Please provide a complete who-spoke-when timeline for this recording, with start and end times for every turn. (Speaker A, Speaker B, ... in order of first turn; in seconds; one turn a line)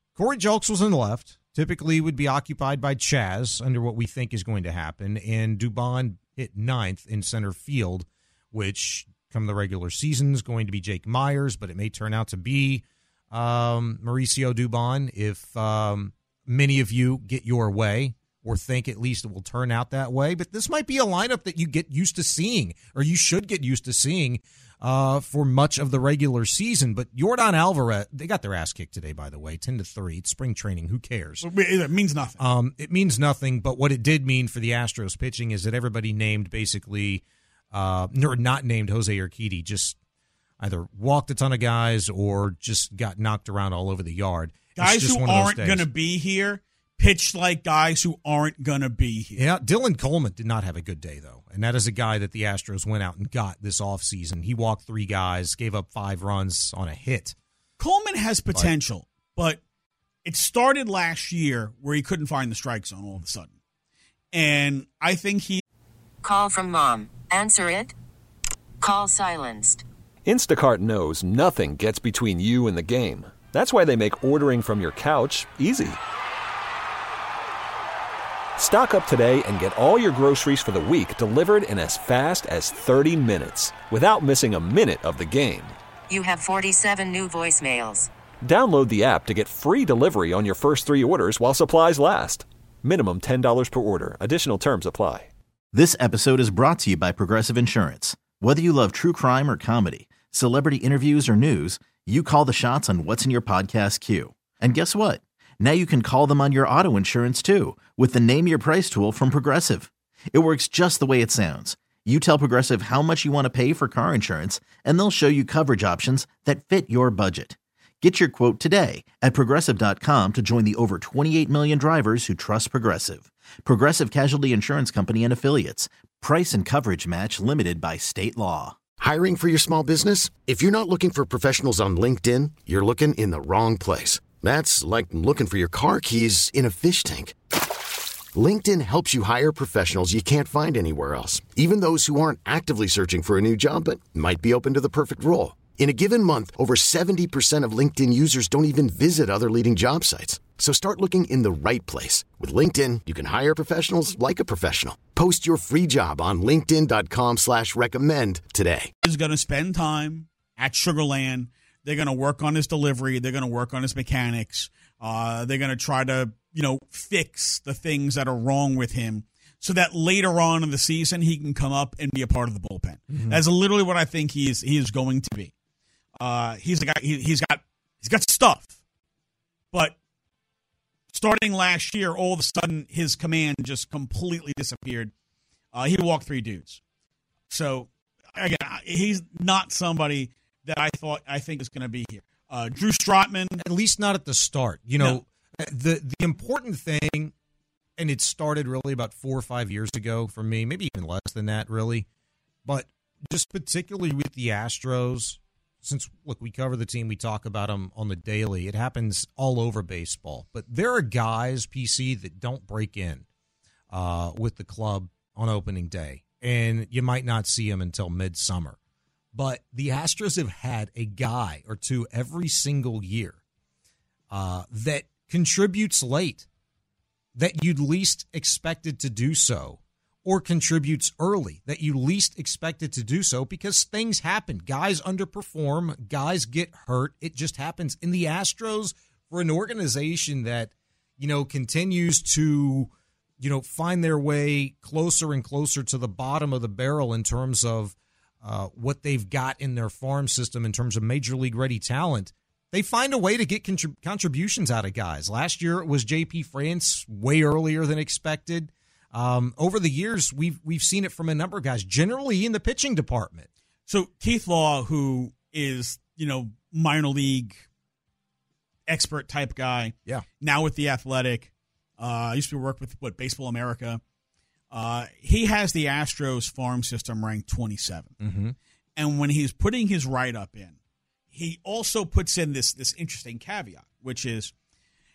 Speaker A: 0.2-31.5
Speaker B: 31.4-32.4
Speaker A: 32.4-40.0
Speaker A: 40.6-45.9
Speaker B: 44.8-49.5
Speaker A: 49.4-57.4
Speaker B: 57.8-59.6
Speaker B: 60.2-63.5
Speaker B: 64.3-65.6
Speaker C: 66.2-67.9
Speaker C: 68.8-69.8
Speaker D: 70.3-76.0
Speaker D: 78.6-85.7
Speaker C: 86.1-88.1
Speaker D: 88.5-95.3
Speaker E: 95.7-128.8
Speaker F: 129.0-137.3
Speaker F: 138.3-158.9
Speaker B: 159.0-175.5
Speaker A: 173.1-173.4
Speaker B: 176.2-178.7
Speaker B: 181.1-185.1
Speaker B: 185.7-186.8
Speaker B: 187.5-193.6
Speaker A: 193.6-197.3
Speaker A: 198.0-202.1
Speaker A: 202.7-213.2
Speaker A: 213.9-218.8
Speaker A: 219.3-223.4
Speaker A: 224.3-226.5
Speaker A: 227.3-263.5
Speaker B: 263.9-267.7
Speaker B: 268.9-274.0
Speaker B: 274.7-278.1
Speaker A: 278.2-278.6
Speaker B: 279.0-280.8
Speaker B: 281.3-284.5